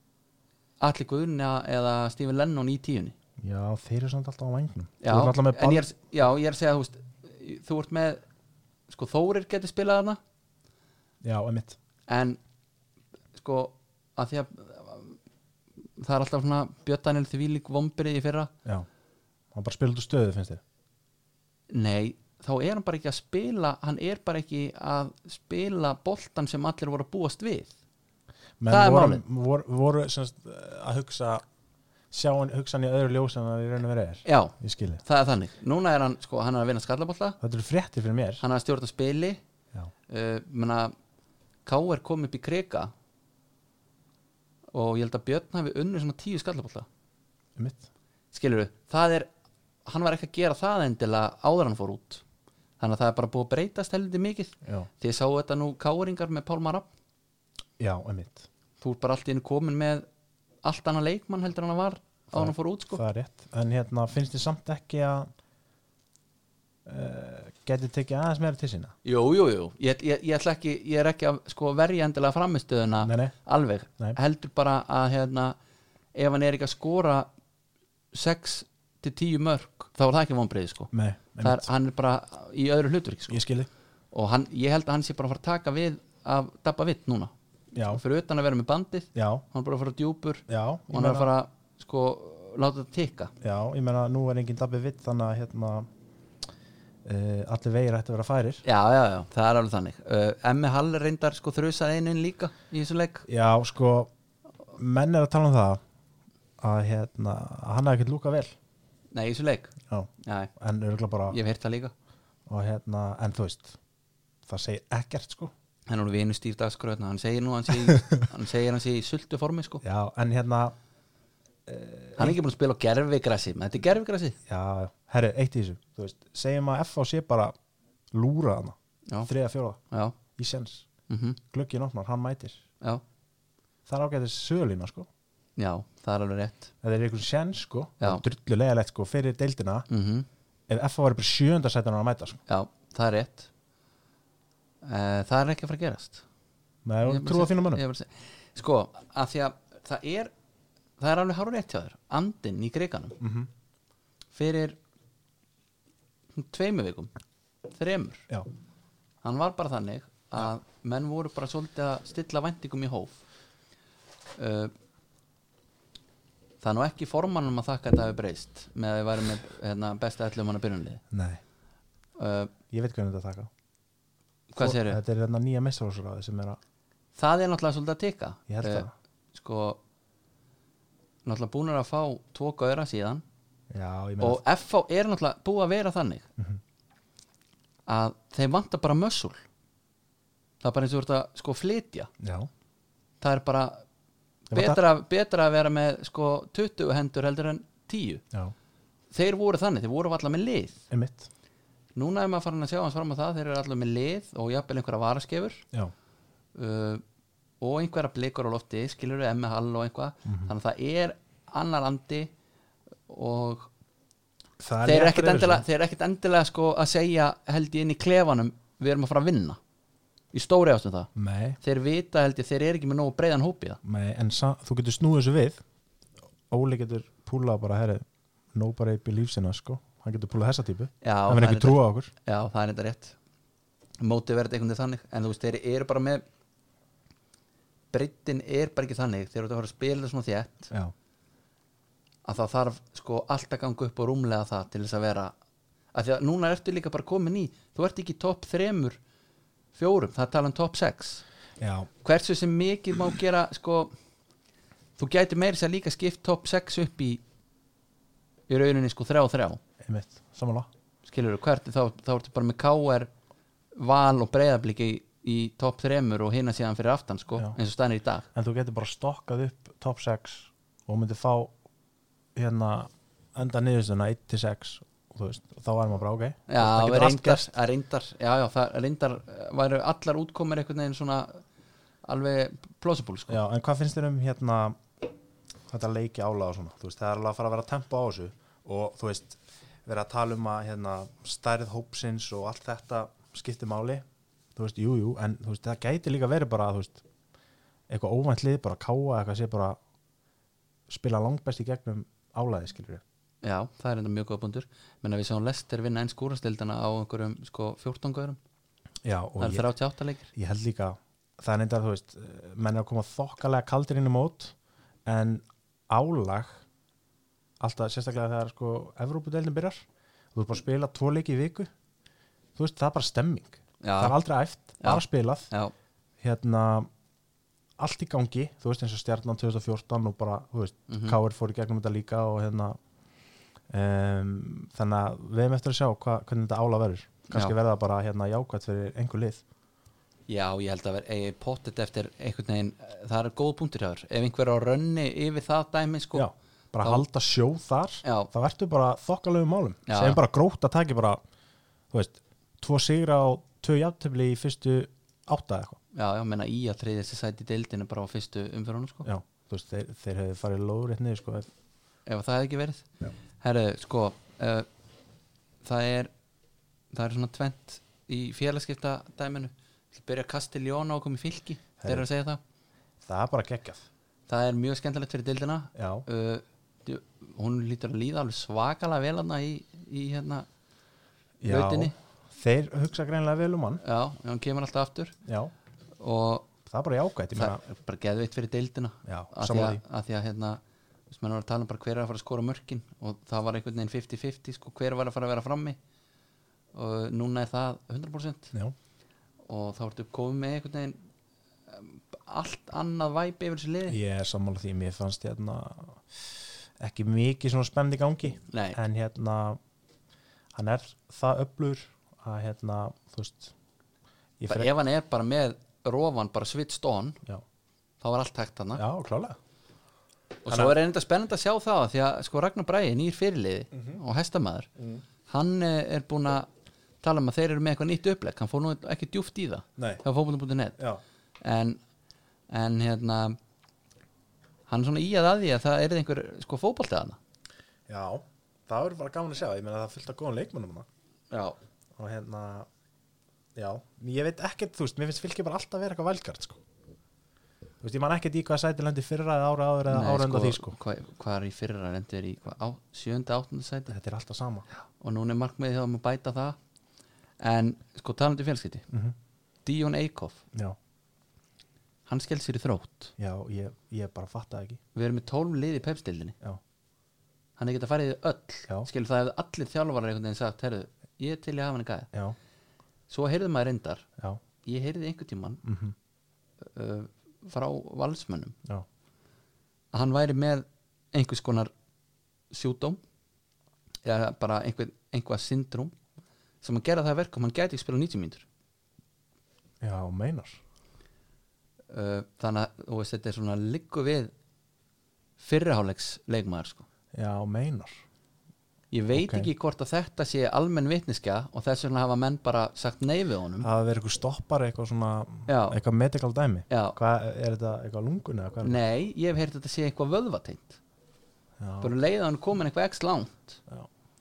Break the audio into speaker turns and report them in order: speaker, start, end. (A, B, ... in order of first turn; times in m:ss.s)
0:00.8-0:03.2 A
0:03.4-0:05.9 B
0:05.0-0:08.2 A
0:08.9-0:10.2 A
0:11.2-0:11.8 B
0:12.1-0:12.4 A
0:13.3-0:15.2 A
0:16.0-0:18.5 A
0:19.5-0:20.6 B
0:21.7-0:27.7 A
0:28.6-0:31.4 B
0:28.7-0:29.2 A
0:32.1-0:35.0 B
0:34.2-0:37.4 A
0:37.4-0:38.4 B
0:38.4-0:39.4 A
0:40.1-0:40.9 A
0:41.6-0:42.9 A
0:44.7-0:46.9 A
0:47.6-0:47.9 B
0:48.3-0:49.3 A
0:49.8-0:52.2 A
0:52.8-0:56.9 A
0:54.6-0:54.9 B
0:57.8-0:58.4 B
0:58.8-1:00.0 A
1:00.6-1:03.0 A
1:02.3-1:05.3 B
1:06.9-1:09.0 B
1:09.0-1:15.6 A
1:13.0-1:13.3 B
1:16.1-1:17.3 A
1:18.1-1:23.4 A
1:20.9-1:21.7 B
1:23.3-1:23.7 B
1:24.1-1:27.3 A
1:27.7-1:28.0 B
1:27.9-1:33.3 A
1:29.1-1:29.4 B
1:30.5-1:31.3 B
1:33.4-1:35.9 B
1:37.0-1:38.6 B
1:38.6-1:43.3 A
1:43.3-1:44.1 B
1:44.7-1:45.8 B
1:46.6-1:48.6 B
1:49.1-1:50.5 A
1:49.9-1:51.4 B
1:51.3-1:51.9 A
1:52.5-1:53.8 B
1:54.4-1:55.5 B
1:55.9-1:59.8 A
1:59.8-2:00.7 B
2:01.6-2:02.4 B
2:02.2-2:04.4 A
2:04.4-2:07.6 B
2:08.1-2:09.8 B
2:09.9-2:10.2 A
2:10.4-2:10.8 B
2:11.1-2:11.4 A
2:11.5-2:12.6 B
2:13.9-2:15.1 B
2:15.6-2:16.7 A
2:16.8-2:19.9 B
2:19.9-2:20.3 A
2:20.7-2:22.4 B
2:22.5-2:23.5 A
2:24.8-2:26.2 A
2:26.8-2:27.8 B
2:27.0-2:30.3 A
2:31.0-2:33.2 A
2:33.2-2:33.5 B
2:34.3-2:34.8 A
2:36.3-2:37.1 A
2:37.7-2:38.3 A
2:39.2-2:43.2 A
2:44.4-2:44.7 A
2:46.6-2:51.0 A
2:51.1-2:51.4 B
2:52.2-2:52.5 A
2:52.7-2:53.5 B
2:54.5-2:55.0 A
2:54.6-2:56.6 B
2:57.2-2:59.8 A
2:58.5-2:58.9 B
3:01.2-3:03.2 A
3:03.7-3:04.4 B
3:04.2-3:06.3 A
3:07.9-3:09.4 A
3:10.6-3:12.1 A
3:12.2-3:12.5 B
3:13.2-3:13.8 A
3:14.5-3:18.2 A
3:14.5-3:14.8 B
3:19.1-3:20.8 A
3:20.9-3:21.3 B
3:21.9-3:25.6 A
3:26.6-3:27.0 A
3:27.6-3:32.3 A
3:30.3-3:30.5 B
3:33.1-3:33.7 A
3:34.6-3:35.6 B
3:34.8-3:39.6 A
3:40.3-3:41.1 A
3:41.1-3:41.6 B
3:41.6-3:43.8 A
3:43.8-3:45.6 B
3:46.5-3:52.1 B
3:51.0-3:53.2 A
3:54.0-3:56.2 A
3:57.9-4:00.7 A
4:02.2-4:05.3 A
4:05.9-4:09.0 A
4:09.7-4:11.2 A
4:11.6-4:11.9 B
4:12.0-4:13.9 A
4:15.0-4:17.2 A
4:18.5-4:19.6 A
4:19.8-4:20.7 B
4:21.0-4:23.1 A
4:23.7-4:28.3 A
4:28.3-4:31.5 B
4:32.4-4:37.5 B
4:36.5-4:41.4 A
4:42.0-4:43.4 A
4:43.3-4:44.9 B
4:45.7-4:54.0 B
4:54.6-4:57.0 B
4:57.9-4:59.8 B
5:00.9-5:03.0 B
5:03.4-5:08.4 A
5:09.0-5:09.7 B
5:09.4-5:10.3 A
5:10.3-5:14.5 B
5:15.0-5:16.6 B
5:17.6-5:21.7 B
5:22.6-5:25.5 B
5:23.8-5:24.2 A
5:24.8-5:25.7 A
5:26.2-5:26.9 B
5:27.8-5:32.8 B
5:30.9-5:31.2 A
5:33.7-5:39.4 B
5:40.3-5:46.3 A
5:46.1-5:51.2 B
5:48.0-5:48.3 A
5:49.9-5:50.2 A
5:51.9-5:55.8 B
5:55.9-5:59.0 A
5:59.0-6:01.5 B
6:02.0-6:02.9 A
6:03.4-6:04.7 A
6:05.6-6:06.1 A
6:06.9-6:12.4 A
6:11.8-6:12.1 B
6:13.0-6:13.9 B
6:14.3-6:20.5 A
6:15.7-6:16.0 B
6:21.4-6:23.8 B
6:21.4-6:21.9 A
6:23.8-6:25.1 A
6:25.2-6:25.5 B
6:26.0-6:26.5 A
6:26.6-6:27.6 B
6:27.3-6:35.8 A
6:29.0-6:29.8 B
6:36.7-6:38.5 A
6:39.4-6:41.0 A
6:41.7-6:44.0 A
6:43.9-6:49.6 B
6:48.5-6:48.8 A
6:50.5-6:53.5 B
6:54.4-6:54.7 B
6:54.5-6:57.2 A
6:58.0-6:58.8 A
6:58.8-6:59.4 B
7:00.4-7:04.7 A
7:00.5-7:00.7 B
7:03.7-7:04.0 B
7:04.8-7:05.0 B
7:05.3-7:06.5 A
7:07.0-7:10.8 A
7:09.8-7:10.0 B
7:11.4-7:11.8 A
7:12.5-7:13.4 A
7:14.7-7:17.2 A
7:17.9-7:20.9 B
7:21.3-7:21.6 A
7:22.0-7:22.7 B
7:23.6-7:26.6 B
7:27.8-7:30.8 B
7:29.9-7:33.9 A
7:33.9-7:34.7 B
7:35.0-7:36.6 A
7:37.4-7:38.8 A
7:39.6-7:40.4 A
7:42.1-7:43.1 A
7:43.2-7:44.8 B
7:44.9-7:46.4 A
7:47.6-7:52.1 A
7:53.1-7:54.0 A
7:54.6-7:55.6 A
7:55.6-7:55.9 B
7:56.6-7:58.6 A
7:59.9-8:01.7 A
8:02.5-8:03.0 A
8:04.0-8:05.9 A
8:06.6-8:08.4 A
8:09.8-8:10.6 B
8:11.9-8:14.3 A
8:15.4-8:16.9 A
8:17.1-8:18.0 B
8:18.9-8:23.7 A
8:19.1-8:19.5 B
8:23.6-8:28.8 B
8:25.5-8:25.8 A
8:26.7-8:27.0 A
8:28.6-8:30.8 A
8:31.6-8:31.9 B
8:31.8-8:33.6 A